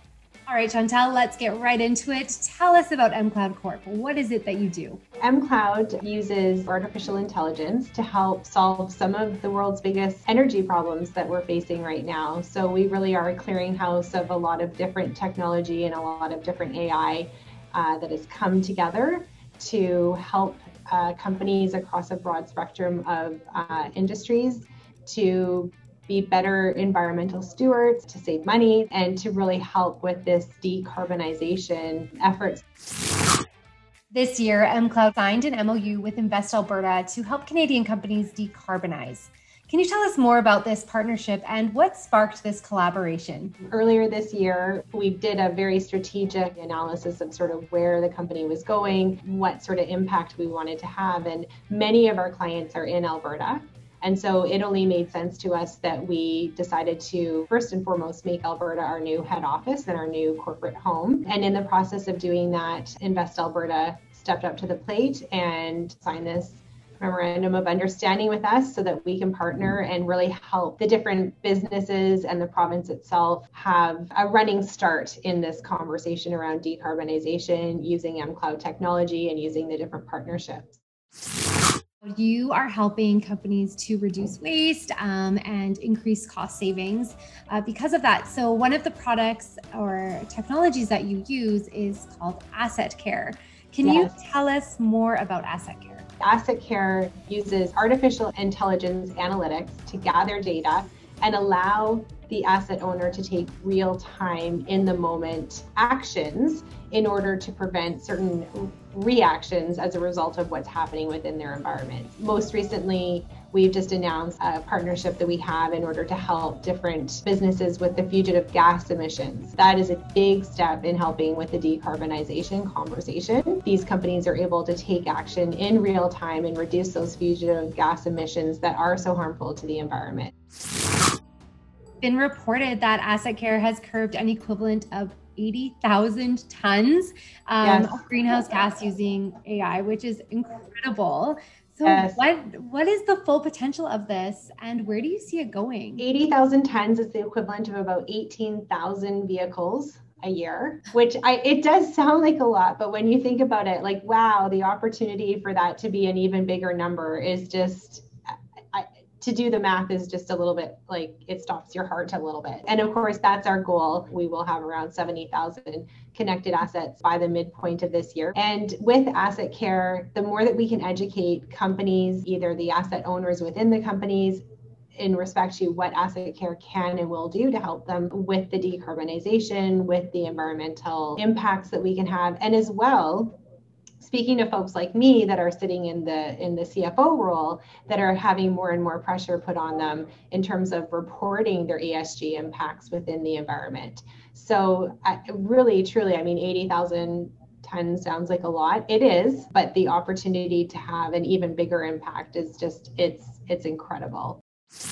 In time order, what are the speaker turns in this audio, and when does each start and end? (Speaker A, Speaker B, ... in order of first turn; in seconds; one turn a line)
Speaker A: 0.5-5.0
Speaker B: 5.2-32.6
Speaker A: 34.1-43.5
Speaker B: 43.7-80.8
Speaker A: 82.0-96.1
Speaker B: 93.8-94.1
Speaker B: 96.2-130.3
Speaker A: 132.0-146.0
Speaker B: 137.6-138.0
Speaker B: 141.8-142.2
Speaker B: 146.0-158.1
Speaker B: 158.7-174.4
Speaker B: 175.0-183.3
Speaker B: 184.0-204.4